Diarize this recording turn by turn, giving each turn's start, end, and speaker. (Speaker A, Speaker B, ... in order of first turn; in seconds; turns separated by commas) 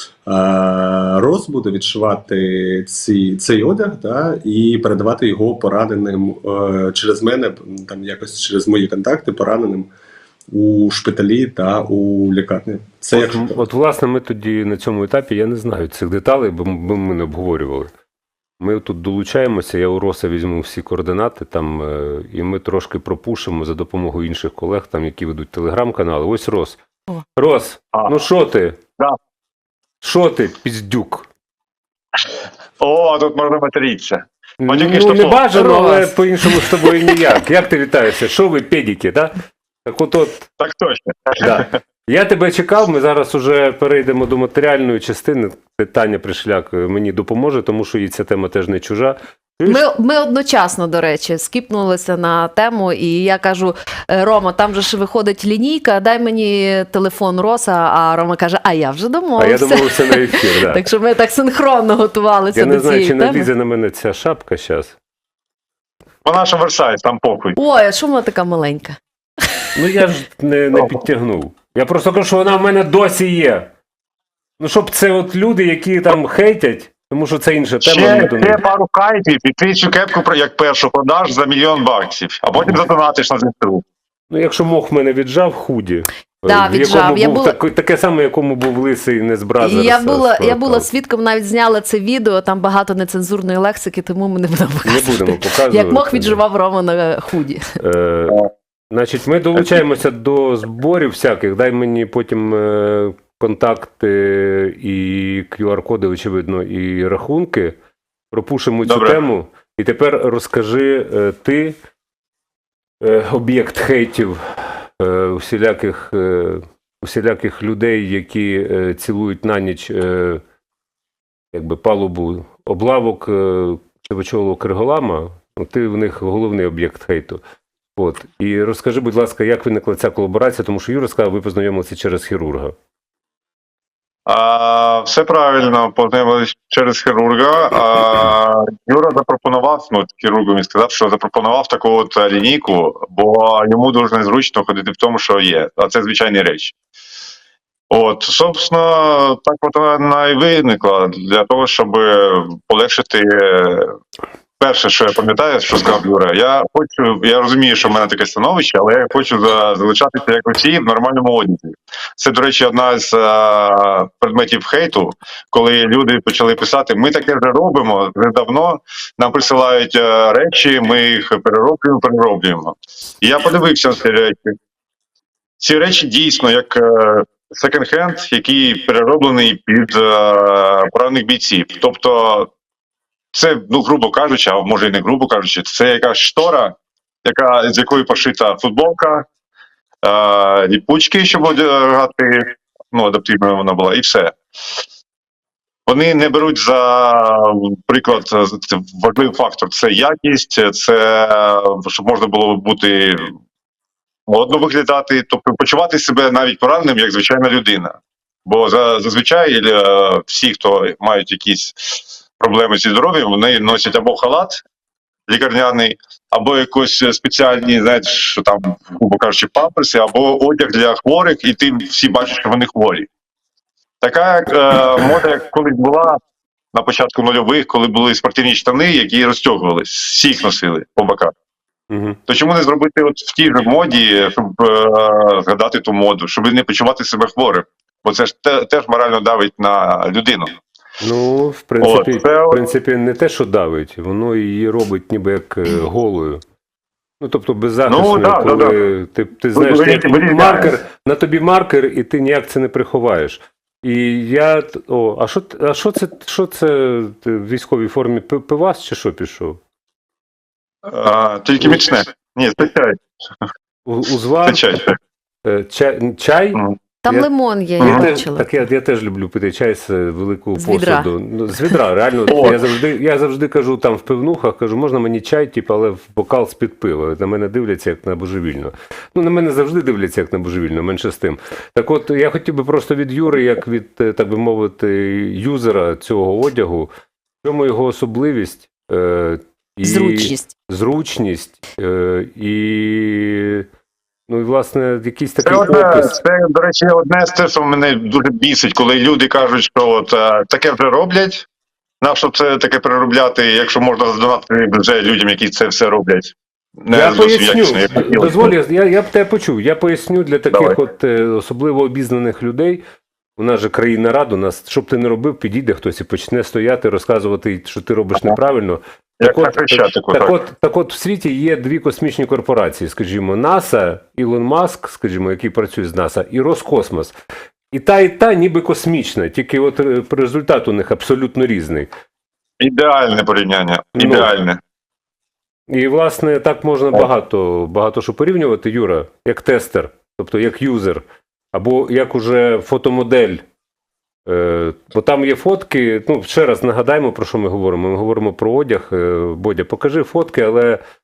Speaker A: 0.3-9.9, Speaker A: 10.5-13.4, Speaker B: 13.1-17.9, Speaker B: 18.6-26.8, Speaker B: 27.4-28.8, Speaker B: 30.0-31.3, Speaker C: 32.8-35.5, Speaker B: 34.6-40.5, Speaker D: 35.5-37.2, Speaker C: 40.6-41.6, Speaker B: 41.4-49.9, Speaker D: 49.7-63.5, Speaker B: 59.4-60.8, Speaker B: 62.5-65.0, Speaker C: 66.2-67.6, Speaker D: 67.6-69.0, Speaker B: 69.8-73.7, Speaker B: 74.6-78.6, Speaker C: 77.8-83.8, Speaker B: 84.3-90.9, Speaker D: 86.5-87.6, Speaker D: 89.6-97.6, Speaker B: 94.8-96.4, Speaker B: 97.8-107.8, Speaker B: 108.3-111.8, Speaker C: 108.9-109.2, Speaker B: 113.0-120.4, Speaker B: 121.5-127.4, Speaker B: 128.0-132.8, Speaker C: 134.3-146.7, Speaker C: 147.9-153.9, Speaker C: 154.6-174.5, Speaker C: 175.6-182.5, Speaker C: 183.3-186.7, Speaker C: 187.2-189.3, Speaker C: 190.0-194.4, Speaker C: 195.9-203.3, Speaker C: 204.3-214.6, Speaker C: 215.3-223.1, Speaker C: 224.0-226.2, Speaker C: 226.7-231.3, Speaker B: 231.9-232.2, Speaker C: 232.3-240.6, Speaker B: 241.0-246.4, Speaker C: 241.8-242.6, Speaker B: 247.2-259.6, Speaker C: 247.9-248.7, Speaker C: 249.6-250.8, Speaker C: 260.9-263.0, Speaker B: 263.9-264.7, Speaker C: 264.5-264.9, Speaker B: 265.4-267.3, Speaker D: 267.0-268.5, Speaker B: 267.8-286.9, Speaker D: 270.6-271.1, Speaker C: 272.3-272.6, Speaker B: 287.4-293.7, Speaker D: 289.8-290.5, Speaker B: 294.3-296.2, Speaker C: 295.4-301.5, Speaker C: 302.0-308.5, Speaker B: 306.9-312.8, Speaker C: 310.5-310.8, Speaker B: 313.4-327.1, Speaker C: 319.2-320.4, Speaker B: 327.7-331.9, Speaker C: 332.6-334.6, Speaker B: 334.0-334.3, Speaker B: 335.7-343.4, Speaker B: 344.3-350.8